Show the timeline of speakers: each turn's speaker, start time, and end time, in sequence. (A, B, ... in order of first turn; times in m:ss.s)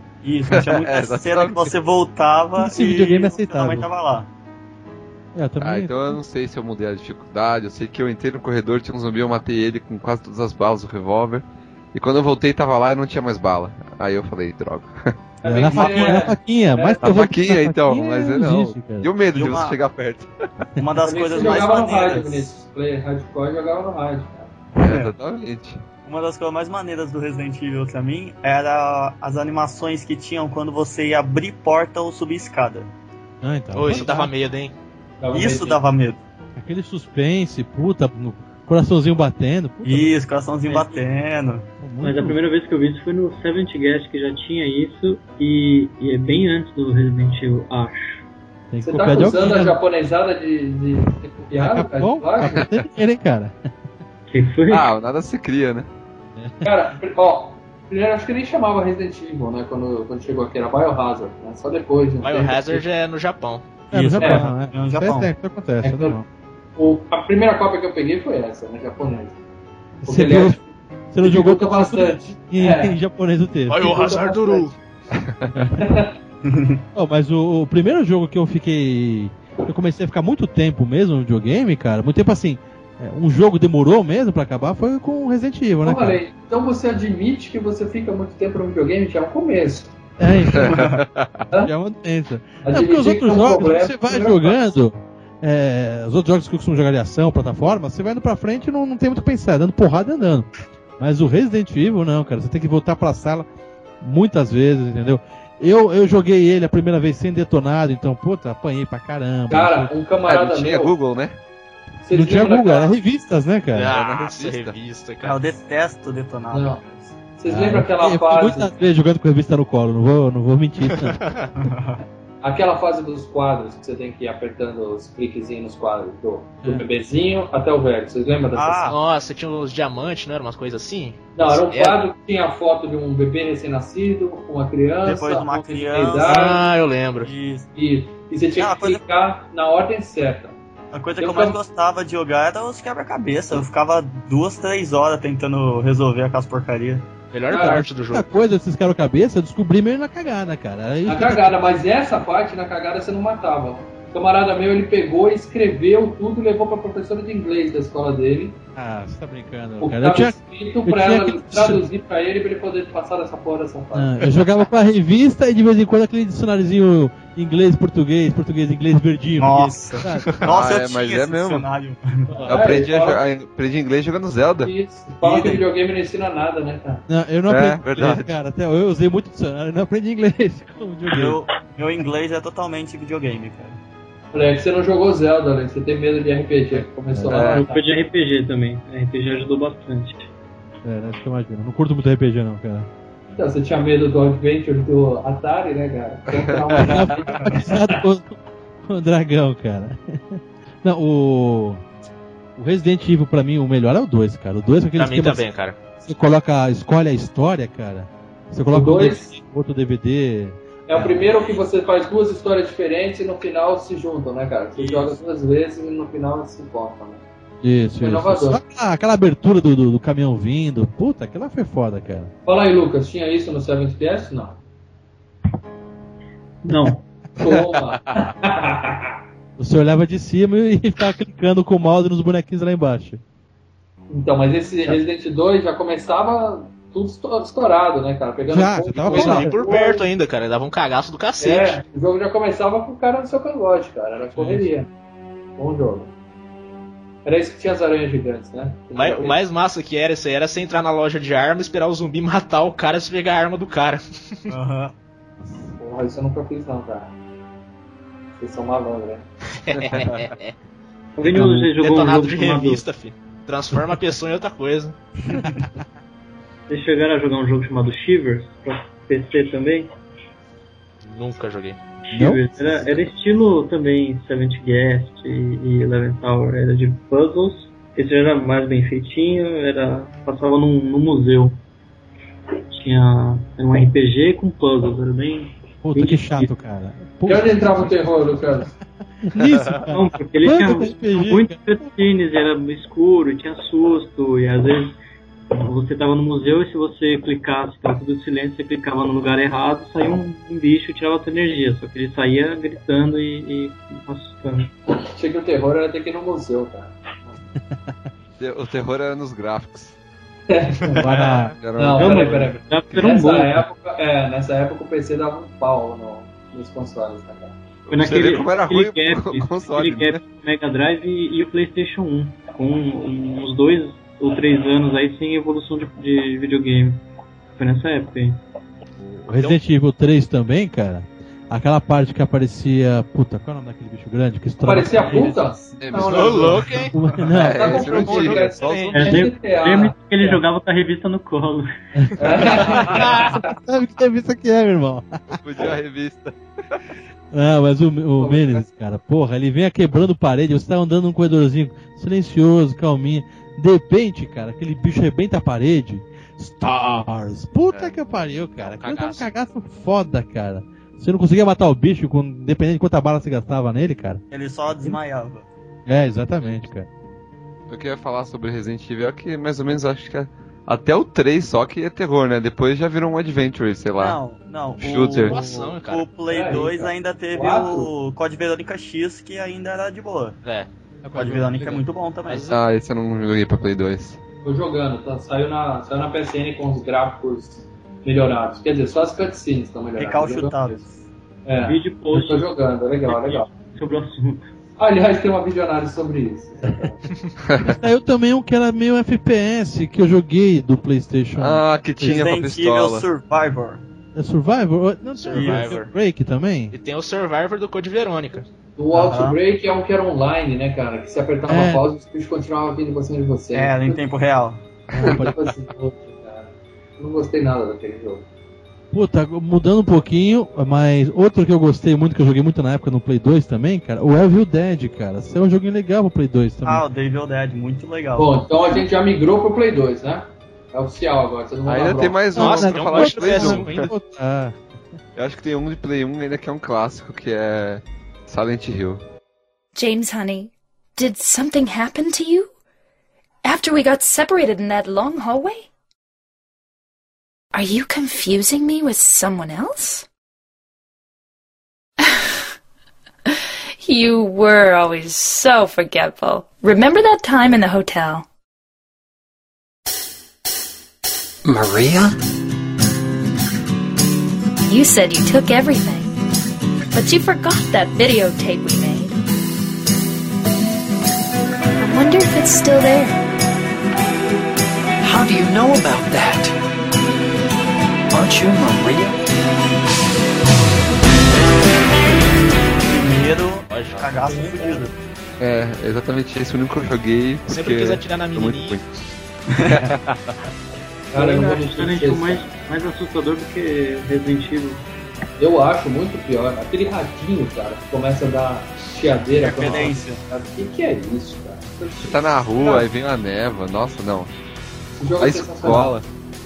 0:00.2-0:04.3 A
0:00.5-0:01.7 B
0:02.6-0:03.9 C
0:05.3-0:06.2 C
0:05.6-0:15.1 B
0:15.4-0:17.2 D
0:15.4-0:19.1 C
0:15.8-0:16.1 B
0:17.0-0:20.3 B
0:19.3-0:19.8 A
0:20.8-0:22.5 A
0:21.0-0:24.5 D
0:24.8-0:25.8 B
0:24.8-0:25.1 A
0:26.0-0:32.9 A
0:33.4-0:34.3 C
0:33.7-0:34.7 E
0:35.2-0:35.8 D
0:35.3-0:36.2 A
0:36.6-0:40.1 C
0:39.8-0:41.6 A
0:41.8-0:42.4 C
0:42.0-0:48.2 F
0:48.7-0:49.8 C
0:48.8-0:52.6 D
0:51.5-0:53.6 C
0:54.3-0:54.9 F
0:54.7-0:55.9 B
0:56.4-0:56.7 C
0:56.6-1:02.8 D
1:02.2-1:03.6 E
1:03.9-1:05.3 A
1:03.9-1:06.2 C
1:04.2-1:04.5 D
1:05.8-1:06.2 D
1:06.8-1:09.4 D
1:10.0-1:10.6 C
1:10.0-1:10.6 D
1:11.1-1:13.9 C
1:11.2-1:12.9 D
1:13.7-1:14.8 E
1:13.8-1:14.7 D
1:15.2-1:15.5 B
1:15.5-1:15.8 C
1:15.8-1:16.1 D
1:16.4-1:16.8 A
1:16.9-1:26.2 C
1:25.8-1:29.9 D
1:30.2-1:30.8 C
1:30.5-1:31.4 B
1:30.6-1:31.0 A
1:31.6-1:43.5 C
1:32.6-1:34.7 D
1:44.0-1:49.9 C
1:49.5-1:51.0 D
1:50.2-1:51.4 B
1:52.0-1:53.0 D
1:52.1-1:53.9 C
1:53.7-1:55.5 E
1:53.9-1:54.7 B
1:55.2-1:57.1 A
1:56.5-1:58.7 D
1:57.4-2:01.2 C
2:00.9-2:01.5 E
2:01.6-2:02.0 A
2:02.4-2:08.9 D
2:08.5-2:09.0 A
2:08.9-2:12.0 E
2:11.4-2:16.7 D
2:15.0-2:16.5 A
2:16.2-2:17.3 E
2:17.2-2:17.7 A
2:17.8-2:20.6 D
2:18.6-2:19.0 A
2:20.9-2:27.0 A
2:21.2-2:21.6 D
2:27.3-2:28.3 E
2:27.5-2:27.9 D
2:28.1-2:31.6 C
2:31.1-2:38.6 D
2:38.7-2:41.8 C
2:39.8-2:44.3 D
2:43.9-2:50.3 C
2:49.4-2:52.6 A
2:50.4-2:51.7 B
2:52.4-2:53.2 D
2:52.5-2:54.7 B
2:54.6-2:57.0 D
2:55.2-2:55.6 A
2:57.1-3:01.4 C
2:57.5-2:58.3 B
3:01.1-3:03.8 A
3:04.3-3:07.8 D
3:07.1-3:07.6 C
3:07.3-3:07.6 B
3:07.5-3:10.3 F
3:10.8-3:12.9 C
3:13.3-3:18.0 D
3:16.3-3:17.2 B
3:16.8-3:21.8 C
3:22.6-3:25.4 C
3:25.0-3:25.8 E
3:26.0-3:31.3 C
3:28.7-3:29.3 D
3:30.9-3:37.2 D
3:34.8-3:35.2 A
3:37.6-3:42.3 C
3:38.0-3:38.6 D
3:42.4-3:44.6 D
3:46.6-3:47.0 F
3:47.4-3:49.2 D
3:47.4-3:48.1 B
3:49.6-3:53.2 C
3:54.1-4:00.1 D
3:58.5-3:59.6 C
3:59.0-4:01.8 E
4:01.4-4:04.9 D
4:04.3-4:04.7 C
4:05.6-4:06.1 D
4:07.2-4:09.4 D
4:08.9-4:14.4 E
4:14.5-4:14.9 A
4:15.8-4:17.1 D
4:18.4-4:19.2 D
4:19.6-4:20.5 E
4:19.8-4:20.3 B
4:21.2-4:22.8 F
4:21.2-4:21.7 C
4:21.8-4:25.0 E
4:26.7-4:29.9 F
4:31.0-4:31.8 E
4:32.1-4:41.6 F
4:32.1-4:32.4 C
4:42.7-4:46.5 F
4:45.8-4:48.1 C
4:47.2-4:48.7 D
4:49.2-4:51.9 C
4:49.9-4:55.0 F
4:55.5-5:04.7 F
5:05.0-5:07.3 D
5:07.7-5:08.1 C
5:08.4-5:10.0 B
5:10.5-5:11.1 D
5:10.9-5:11.6 C
5:11.1-5:11.5 E
5:11.6-5:12.5 B
5:11.8-5:17.6 D
5:11.9-5:13.6 F
5:17.9-5:20.2 B
5:17.9-5:27.0 F
5:27.6-5:28.4 F
5:29.2-5:35.4 C
5:34.6-5:36.9 D
5:35.8-5:36.6 B
5:35.9-5:36.9 E
5:36.9-5:38.0 C
5:37.3-5:39.2 B
5:37.4-5:40.4 D
5:37.9-5:39.2 E
5:38.9-5:41.7 F
5:42.0-5:45.4 C
5:42.2-5:43.5 D
5:45.3-5:46.8 B
5:47.3-6:04.2 C
5:48.2-5:48.6 D
5:58.6-5:59.3 E
6:04.3-6:05.4 A
6:05.9-6:06.9 C
6:07.7-6:14.2 B
6:14.0-6:20.4 A
6:14.8-6:15.4 B
6:15.2-6:16.1 E
6:16.3-6:17.9 D
6:21.0-6:21.8 C
6:21.1-6:22.6 A
6:22.5-6:24.2 B
6:24.4-6:30.8 D
6:30.0-6:31.0 A
6:31.4-6:33.5 D
6:31.6-6:32.4 F
6:33.6-6:34.4 F
6:34.8-6:37.0 D
6:37.5-6:37.8 B
6:37.6-6:42.2 C
6:41.4-6:43.0 B
6:42.0-6:43.8 A
6:44.1-6:46.7 C
6:45.2-6:45.9 E
6:45.3-6:45.8 A
6:46.7-6:48.5 E
6:48.8-6:54.0 D
6:48.9-6:49.4 A
6:51.5-6:51.8 C
6:53.5-6:54.6 A
6:54.9-6:55.4 C
6:55.0-6:58.2 D
6:58.9-7:06.8 C
7:06.6-7:08.8 A
7:08.2-7:12.4 D
7:11.6-7:13.9 B
7:12.3-7:13.9 E
7:12.3-7:14.6 C
7:15.2-7:19.0 B
7:19.7-7:22.5 G
7:23.4-7:25.7 G
7:27.5-7:30.0 G
7:32.0-7:32.3 G
7:33.3-7:38.2 G
7:41.4-7:42.1 H
7:44.7-7:46.1 G
7:46.9-7:49.2 G
7:51.8-7:53.2 G
7:55.0-7:56.5 H
7:58.1-7:59.2 H
8:02.8-8:04.9 A
8:03.7-8:04.1 E
8:05.4-8:08.8 B
8:07.4-8:08.8 E
8:09.5-8:09.9 A
8:09.6-8:10.4 B
8:11.1-8:12.5 D
8:11.1-8:14.8 F
8:15.4-8:22.9 D
8:19.4-8:20.2 A
8:22.0-8:24.3 B
8:24.9-8:26.0 D
8:25.2-8:26.0 B